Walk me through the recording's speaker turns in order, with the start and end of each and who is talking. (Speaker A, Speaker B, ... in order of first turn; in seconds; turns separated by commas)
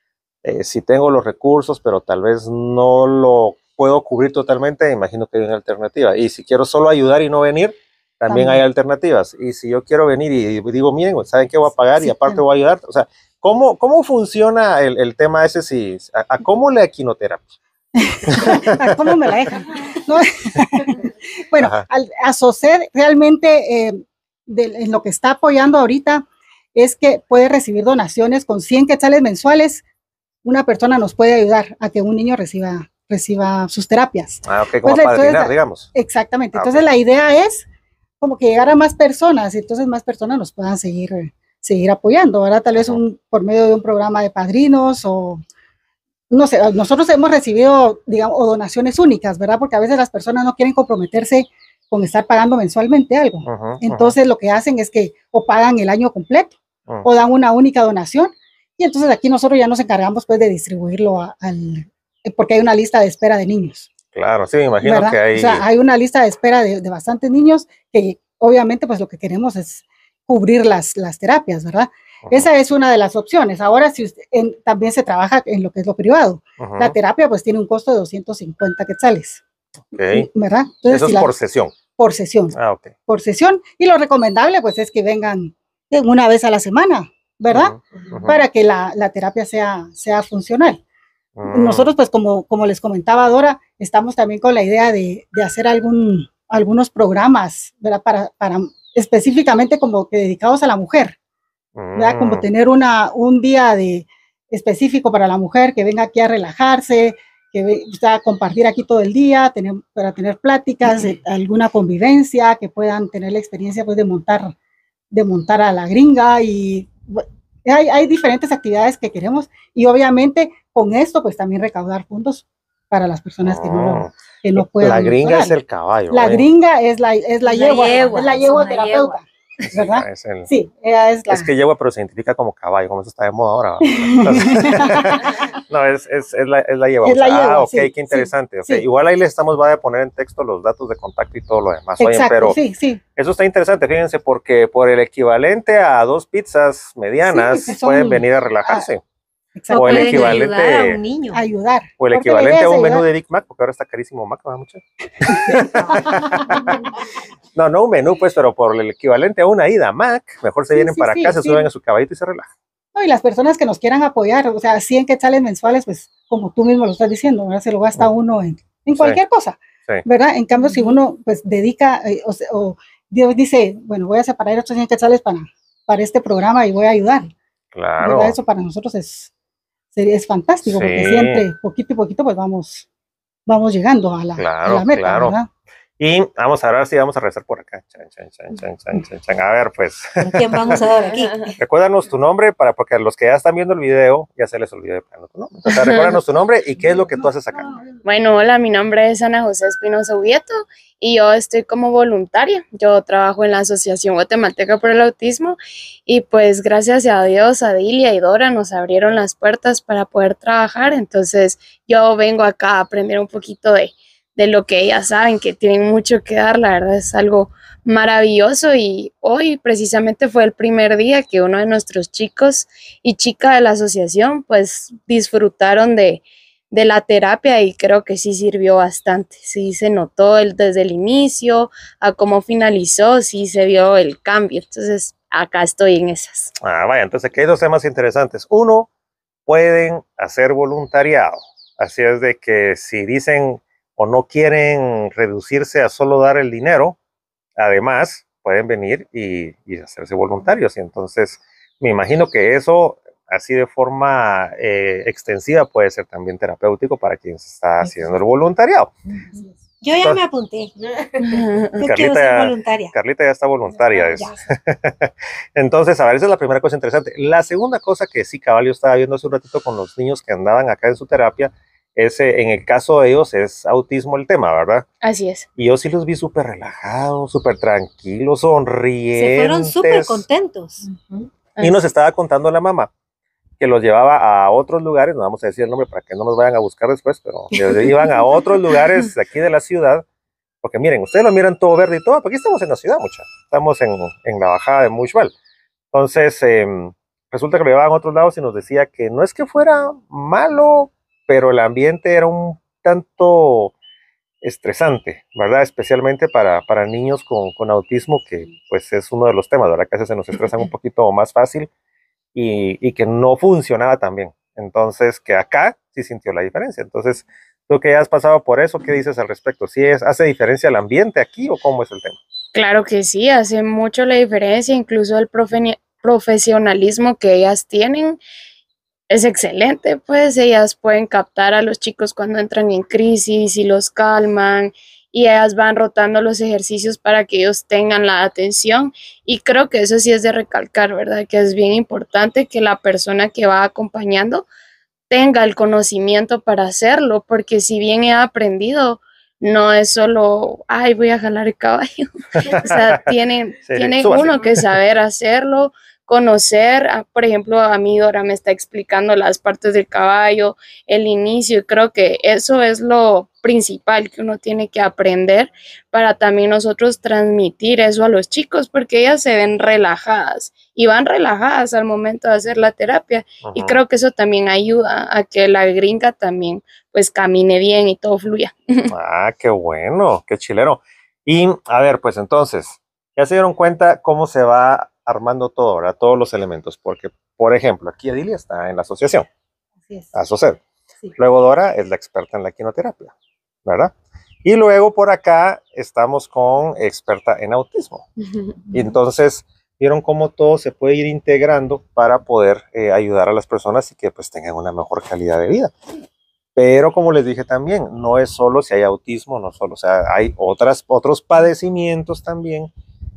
Speaker A: 0.4-17.5, Speaker B: 8.3-8.6, Speaker B: 12.0-12.4, Speaker B: 17.9-29.8, Speaker A: 18.3-19.3, Speaker A: 21.6-21.9, Speaker B: 30.4-37.6, Speaker A: 34.4-35.9, Speaker A: 36.5-36.8, Speaker B: 38.2-45.4, Speaker A: 42.7-43.0, Speaker B: 46.3-63.9, Speaker A: 53.4-54.2, Speaker A: 64.1-65.7, Speaker B: 64.8-79.4, Speaker A: 76.6-76.9, Speaker A: 79.9-80.3, Speaker B: 80.1-81.3, Speaker A: 80.9-81.7, Speaker B: 81.9-82.5, Speaker A: 82.5-82.9, Speaker B: 83.1-90.8, Speaker A: 87.5-88.4, Speaker A: 91.4-91.9, Speaker B: 91.5-101.2, Speaker A: 101.8-102.5, Speaker B: 101.9-114.5, Speaker B: 115.1-125.5, Speaker A: 123.4-126.5, Speaker B: 126.1-131.5, Speaker C: 127.4-129.2, Speaker A: 129.6-130.5, Speaker A: 131.3-142.6, Speaker B: 133.9-135.4, Speaker B: 137.0-138.8, Speaker B: 142.0-143.0, Speaker A: 143.2-149.0, Speaker B: 147.2-148.9, Speaker B: 149.6-150.4, Speaker C: 149.7-151.4, Speaker A: 149.7-151.0, Speaker B: 151.3-153.0, Speaker A: 152.0-156.8, Speaker B: 155.3-155.7, Speaker A: 157.5-162.5, Speaker B: 160.7-161.7, Speaker B: 162.9-177.3, Speaker A: 168.9-169.2, Speaker A: 177.7-178.4, Speaker B: 178.0-179.3, Speaker B: 179.9-182.9, Speaker A: 180.6-181.4, Speaker B: 183.4-185.5, Speaker A: 184.4-185.4, Speaker A: 186.0-190.8, Speaker C: 190.2-191.6, Speaker A: 191.6-197.8, Speaker B: 197.1-198.0, Speaker D: 198.0-205.6, Speaker D: 206.1-236.5, Speaker A: 236.6-238.9, Speaker A: 239.5-247.0, Speaker A: 247.6-258.9, Speaker C: 259.8-262.9, Speaker D: 261.2-261.7, Speaker A: 261.8-274.9, Speaker C: 264.0-264.4, Speaker D: 275.0-275.5, Speaker A: 275.6-280.2, Speaker C: 279.1-280.9, Speaker A: 281.6-282.9, Speaker A: 283.6-290.0, Speaker A: 290.6-295.3, Speaker A: 295.9-303.7, Speaker A: 304.4-311.7, Speaker A: 312.4-322.2, Speaker D: 322.5-328.2, Speaker D: 329.1-344.4, Speaker D: 345.1-378.9, Speaker A: 352.4-353.0, Speaker A: 353.6-354.7, Speaker A: 373.4-373.8, Speaker A: 378.9-389.3, Speaker B: 389.9-390.1, Speaker A: 390.1-390.6, Speaker A: 391.1-393.1, Speaker A: 393.6-393.9, Speaker A: 394.4-398.1, Speaker A: 398.7-405.7, Speaker A: 406.6-412.7